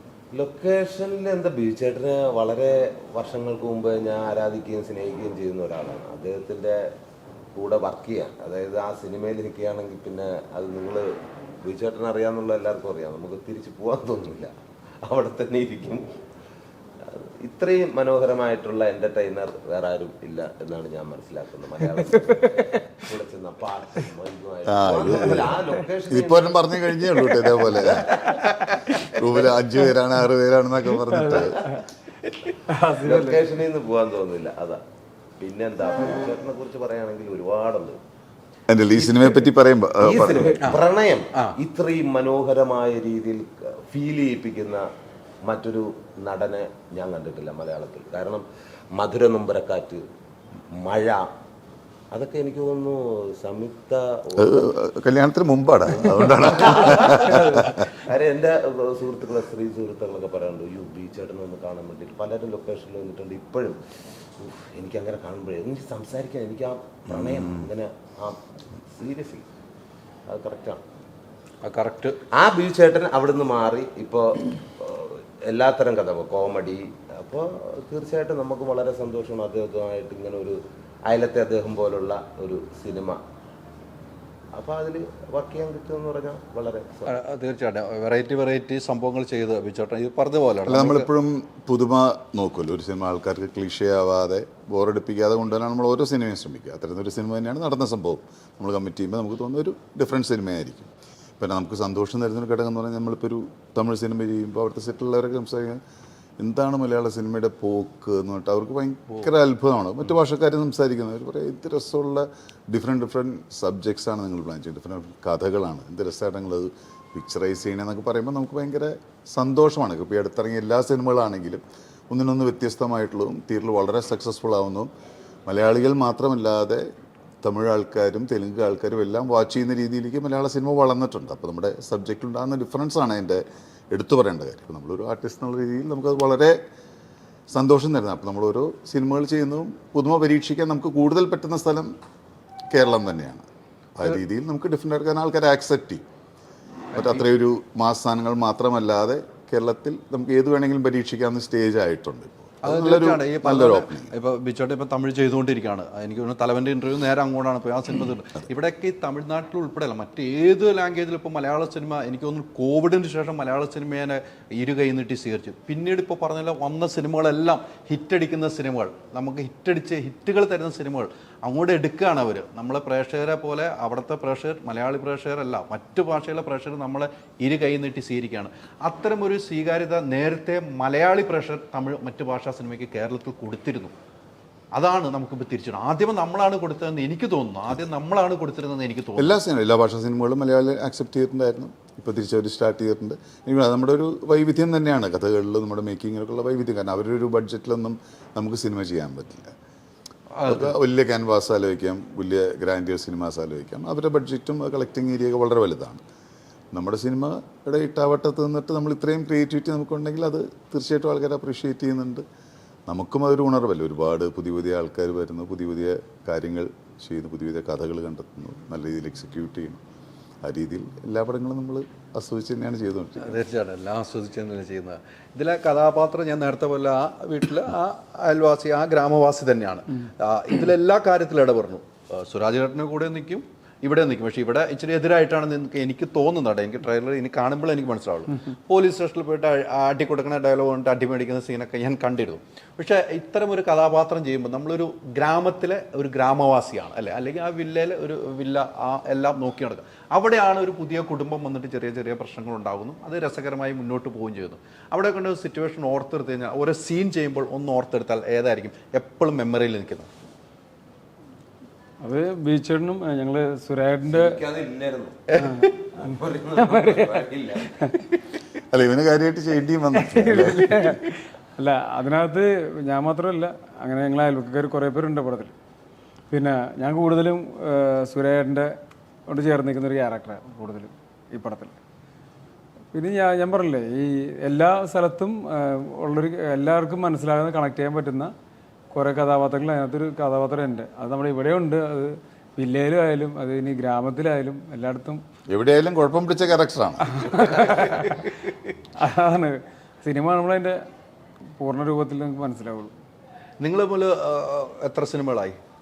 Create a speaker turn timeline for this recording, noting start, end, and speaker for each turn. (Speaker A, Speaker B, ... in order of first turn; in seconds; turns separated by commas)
Speaker A: 0.3-6.8, Speaker A: 7.5-11.1, Speaker A: 11.6-14.5, Speaker A: 15.0-16.1, Speaker A: 17.1-28.4, Speaker B: 24.7-28.2, Speaker C: 28.3-28.9, Speaker B: 29.1-31.7, Speaker D: 31.1-31.8, Speaker D: 32.7-33.5, Speaker A: 32.9-34.8, Speaker A: 35.4-38.0, Speaker B: 38.7-40.8, Speaker A: 40.0-44.8, Speaker A: 45.5-48.4, Speaker A: 49.0-50.0, Speaker A: 50.7-51.3, Speaker A: 52.1-54.7, Speaker B: 54.4-57.9, Speaker A: 56.0-63.8, Speaker A: 64.4-68.4, Speaker A: 68.9-69.5, Speaker A: 70.3-70.8, Speaker C: 71.6-72.2, Speaker A: 72.3-83.2, Speaker A: 84.5-87.2, Speaker C: 87.1-91.1, Speaker B: 90.7-105.8, Speaker B: 106.4-124.9, Speaker B: 125.5-126.9, Speaker B: 127.4-136.6, Speaker B: 137.5-141.9, Speaker B: 142.7-146.0, Speaker B: 146.9-154.1, Speaker C: 146.9-147.2, Speaker C: 152.6-183.9, Speaker C: 184.8-189.4, Speaker B: 189.2-199.5, Speaker C: 200.3-200.8, Speaker B: 200.4-206.0, Speaker B: 206.7-212.3, Speaker B: 212.9-219.8, Speaker B: 220.4-223.4, Speaker C: 223.2-260.1, Speaker D: 262.0-264.4, Speaker A: 264.1-265.4, Speaker C: 265.3-265.8, Speaker A: 265.9-267.9, Speaker D: 266.6-267.2, Speaker B: 268.7-271.0, Speaker D: 269.9-275.5, Speaker D: 276.3-278.7, Speaker D: 279.3-281.8, Speaker D: 282.9-288.3, Speaker D: 288.9-295.2, Speaker B: 295.5-297.4, Speaker D: 297.2-298.3, Speaker C: 297.8-298.5, Speaker D: 299.0-300.8, Speaker D: 301.6-302.9, Speaker C: 303.6-305.6